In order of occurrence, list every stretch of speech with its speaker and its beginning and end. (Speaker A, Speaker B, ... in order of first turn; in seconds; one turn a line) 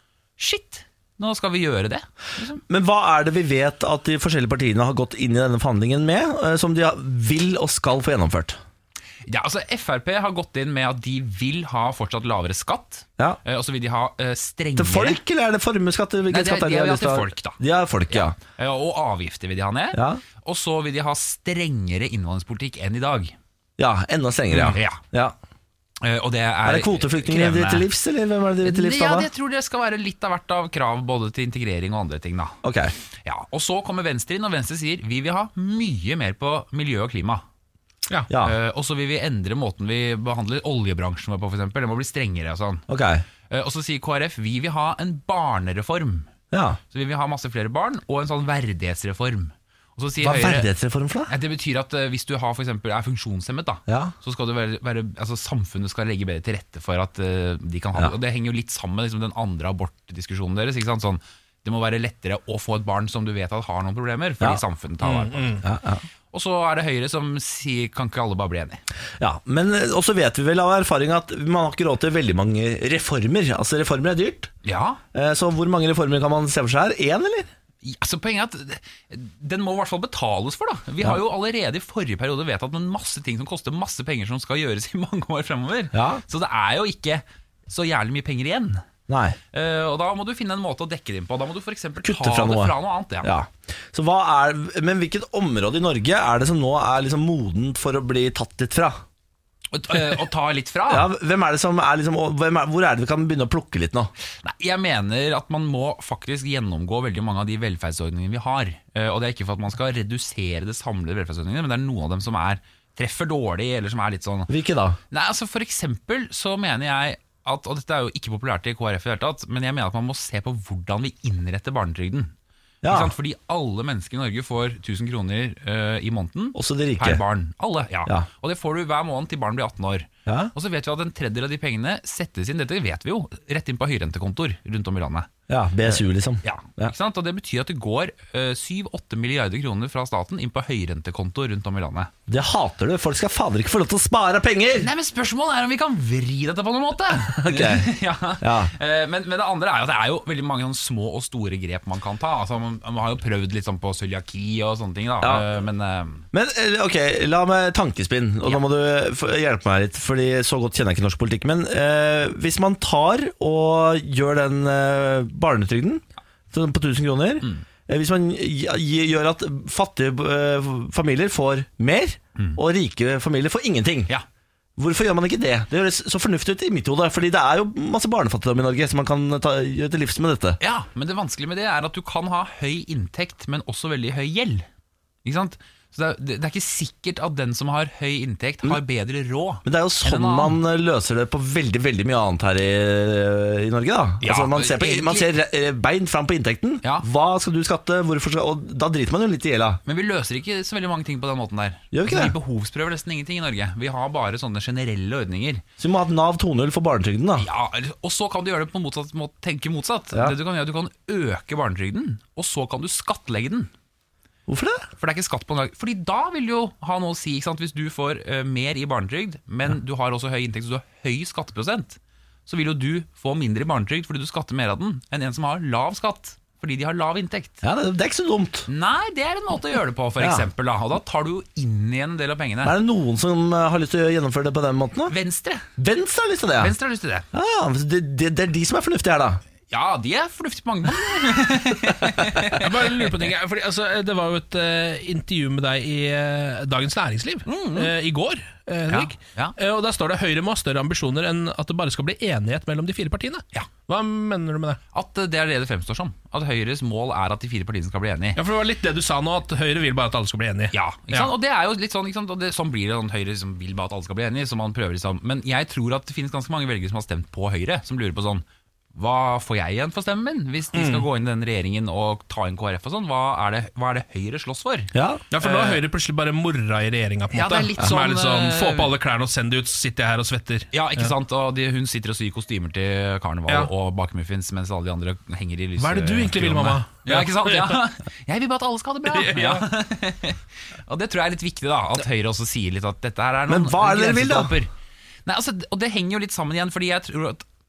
Speaker A: 0.4-2.6
Speaker B: 2.7-8.6
Speaker A: 9.2-15.2
Speaker B: 14.8-18.4
Speaker A: 16.3-23.3
Speaker B: 19.9-20.2
Speaker B: 23.8-25.3
Speaker A: 24.5-25.0
Speaker A: 26.0-27.9
Speaker B: 26.6-29.3
Speaker A: 28.6-32.5
Speaker B: 32.6-32.9
Speaker A: 33.2-37.4
Speaker B: 38.3-38.5
Speaker A: 38.4-42.8
Speaker B: 42.9-43.2
Speaker A: 43.5-46.3
Speaker B: 46.5-46.8
Speaker A: 46.9-50.7
Speaker B: 50.2-51.3
Speaker A: 51.3-65.6
Speaker B: 53.9-54.1
Speaker C: 65.0-65.6
Speaker B: 65.6-66.0
Speaker A: 66.3-68.8
Speaker B: 69.2-74.5
Speaker A: 74.6-75.0
Speaker B: 75.1-77.5
Speaker A: 77.8-88.8
Speaker B: 85.9-86.2
Speaker B: 89.1-89.4
Speaker A: 89.5-93.3
Speaker B: 92.0-99.0
Speaker A: 99.7-101.1
Speaker B: 100.9-104.1
Speaker A: 104.4-114.5
Speaker B: 114.5-115.0
Speaker A: 115.1-122.3
Speaker B: 122.8-123.1
Speaker A: 122.8-135.3
Speaker B: 126.5-127.2
Speaker B: 130.2-130.5
Speaker B: 135.5-136.9
Speaker A: 135.9-142.1
Speaker B: 142.3-144.9
Speaker A: 144.8-156.2
Speaker B: 147.3-148.7
Speaker B: 156.3-174.1
Speaker B: 174.8-180.6
Speaker A: 180.6-184.7
Speaker A: 185.2-190.6
Speaker B: 189.6-199.8
Speaker A: 194.2-195.3
Speaker A: 199.8-205.6
Speaker B: 201.9-202.3
Speaker B: 205.8-207.4
Speaker A: 207.4-213.7
Speaker B: 214.5-214.9
Speaker A: 215.0-227.6
Speaker B: 227.6-228.7
Speaker A: 228.7-232.8
Speaker B: 230.2-230.5
Speaker B: 232.6-235.1
Speaker A: 235.1-235.6
Speaker B: 235.8-236.7
Speaker A: 236.6-237.3
Speaker B: 237.3-239.4
Speaker A: 239.7-243.2
Speaker C: 242.6-254.8
Speaker A: 247.5-247.9
Speaker A: 248.9-249.5
Speaker A: 254.9-258.4
Speaker C: 258.4-261.3
Speaker A: 260.7-275.8
Speaker C: 270.7-271.1
Speaker B: 274.9-275.2
Speaker C: 275.3-281.1
Speaker A: 277.3-278.9
Speaker A: 280.7-294.7
Speaker C: 285.8-287.9
Speaker C: 289.1-289.7
Speaker B: 293.5-294.5
Speaker A: 295.2-297.4